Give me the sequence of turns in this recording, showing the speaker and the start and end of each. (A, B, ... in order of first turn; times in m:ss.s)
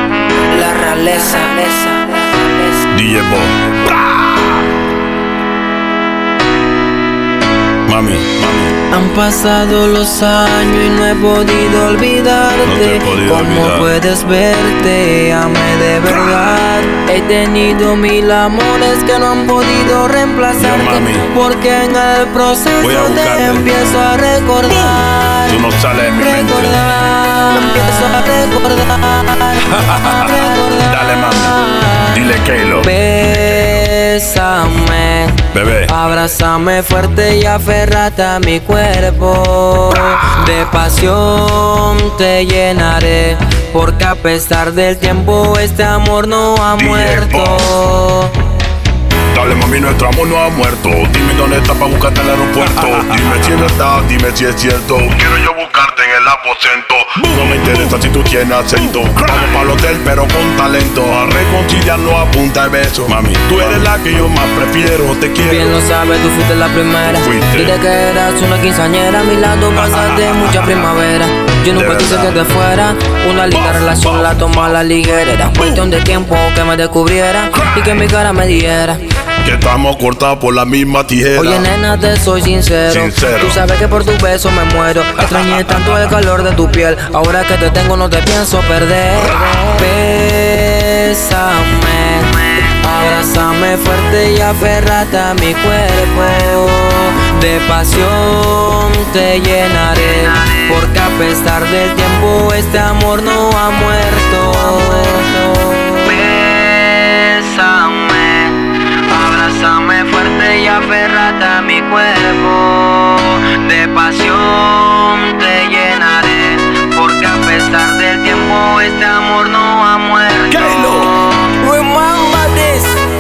0:00.5-0:02.8 A
0:02.9-0:04.7 B
0:07.9-0:08.8 B
0:08.9-0:32.2 A
0:12.6-0:13.9 B
0:16.1-0:16.6 B
0:20.6-0:21.3 B
0:22.8-0:23.7 B
0:25.5-0:26.8 B
0:29.7-0:33.0 B
0:32.8-0:48.4 A
0:35.5-0:36.0 B
0:46.8-0:47.7 B
0:49.3-1:05.8 B
1:05.4-1:19.0 A
1:07.1-1:07.8 B
1:09.9-1:10.5 B
1:11.7-1:12.4 B
1:13.5-1:14.5 B
1:15.6-1:15.8 B
1:17.5-1:18.0 B
1:19.4-1:21.7 B
1:21.4-2:03.0 A
1:22.9-1:23.6 B
2:00.5-2:01.2 B